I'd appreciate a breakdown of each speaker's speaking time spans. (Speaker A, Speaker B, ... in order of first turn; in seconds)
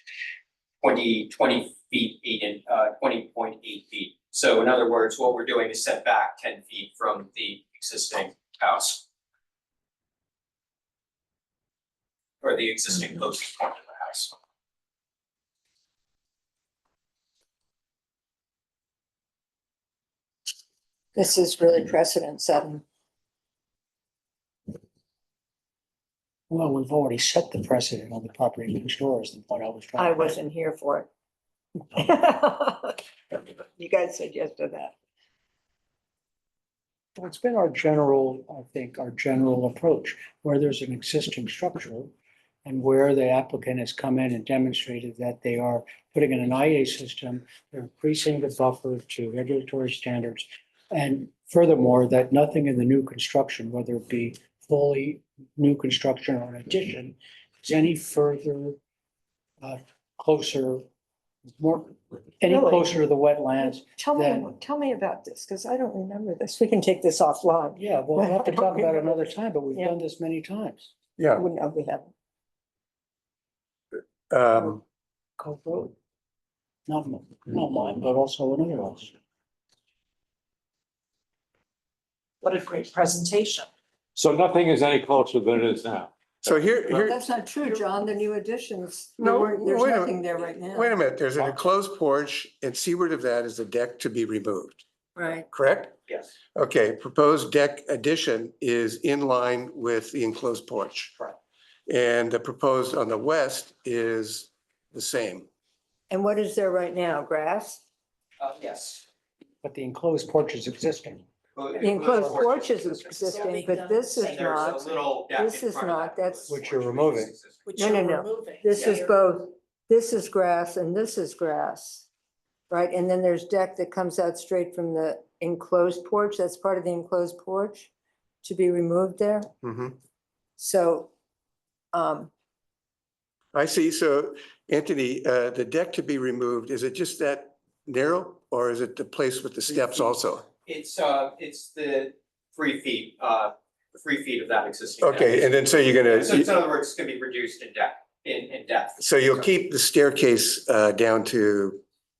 Speaker A: 0.8-9.0, 12.4-14.3, 96.1-96.3, 108.4-109.1, 111.5-117.8, 118.7-119.0, 140.7-145.5, 146.0-149.0
Speaker B: 21.1-22.8, 30.0-31.1, 31.9-34.9, 62.4-62.9, 63.7-69.9, 71.3-72.1, 86.9-91.0, 95.2-95.5, 106.1-107.8, 111.8-114.8, 115.3-116.5, 117.8-122.0, 122.7-127.9, 128.4-129.5, 130.6-131.1, 131.9-132.3
Speaker C: 26.5-30.3, 37.1-42.1, 42.6-58.8, 59.6-60.8, 61.6-64.5, 67.7-70.9, 75.4-75.9, 76.9-79.1, 109.6-111.2, 116.5-117.3
Speaker D: 71.2-71.4, 74.3-74.8, 86.4-87.2, 89.2-94.8, 95.5-95.9, 96.5-101.2, 101.9-105.5, 129.6-130.0, 133.5-140.5, 145.0-146.5, 149.0-151.8
Speaker E: 82.4-83.7, 113.2-114.9, 117.7-119.1
Speaker F: 84.1-86.1